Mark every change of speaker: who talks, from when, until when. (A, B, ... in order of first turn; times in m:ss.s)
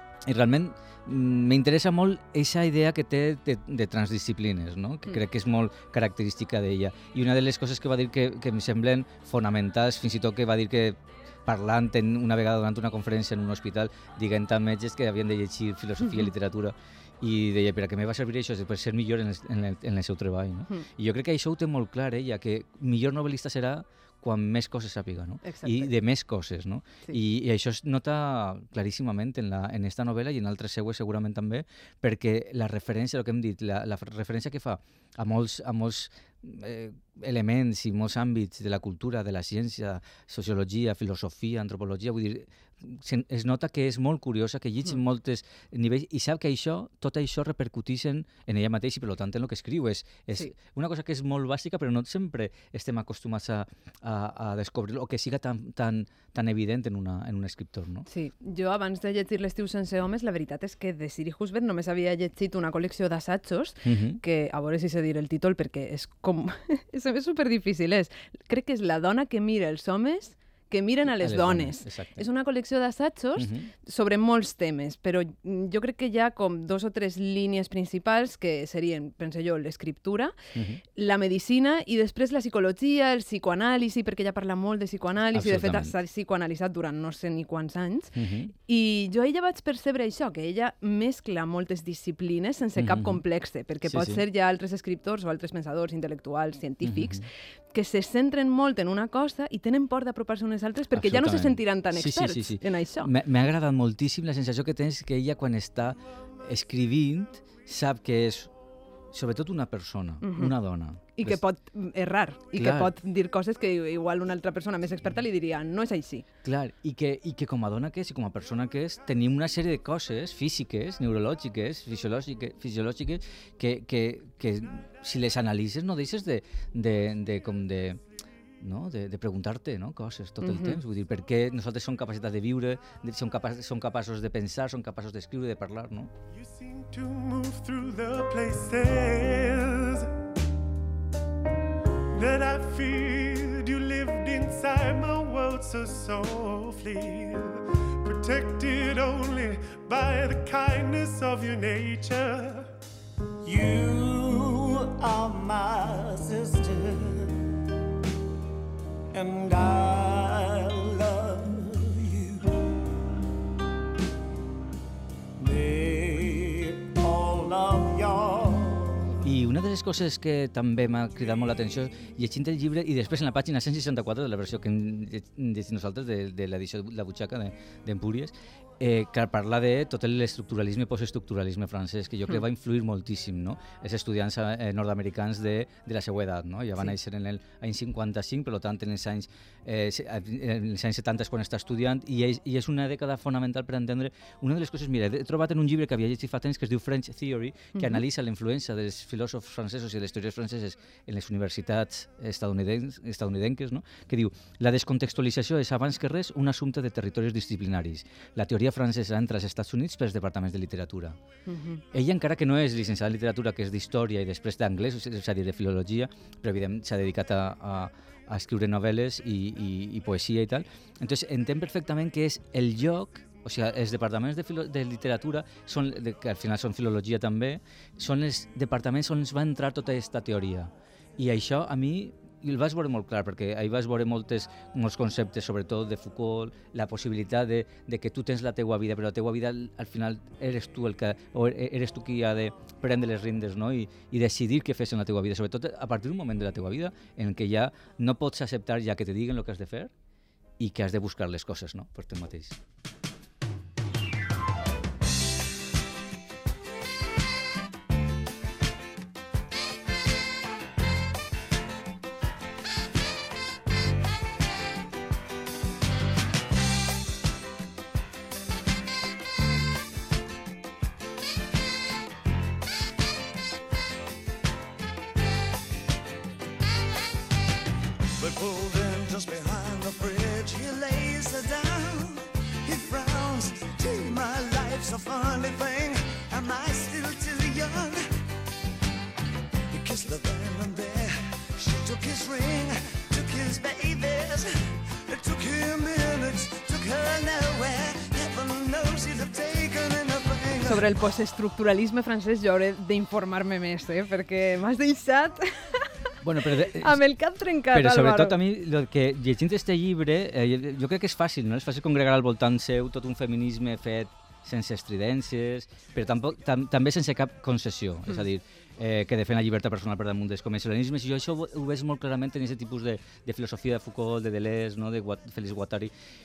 0:00.2-0:58.1 A
0:25.4-0:25.9 B
0:58.1-1:20.4 B
1:03.8-1:04.2 A
1:11.2-1:12.3 A
1:13.4-1:13.7 A
1:20.5-1:20.8 A
1:21.0-1:37.2 B
1:25.3-1:25.9 A
1:28.1-1:28.5 A
1:32.8-1:33.2 A
1:33.8-1:34.2 A
1:36.8-1:37.3 A
1:37.7-1:43.1 B
1:40.9-1:48.5 A
1:49.1-1:51.4 A
1:50.2-1:50.5 B
1:51.2-1:56.2 B
1:52.6-1:52.9 A
1:56.4-2:08.0 A
2:08.6-2:16.1 A
2:10.4-2:10.8 B
2:16.4-2:20.1 C
2:22.1-2:32.7 C
2:33.4-2:37.3 D
2:39.1-2:42.5 D
2:45.4-2:49.2 D
2:49.2-3:31.2 A
3:17.8-3:18.0 B
3:31.5-3:31.8 B
3:31.9-4:09.9 A
4:10.6-4:12.6 A
4:38.2-4:48.0 D
4:49.7-4:54.5 D
4:55.1-5:00.9 D
5:00.6-5:05.9 B
5:06.2-5:07.0 A
5:06.7-5:08.4 B
5:07.7-5:25.9 A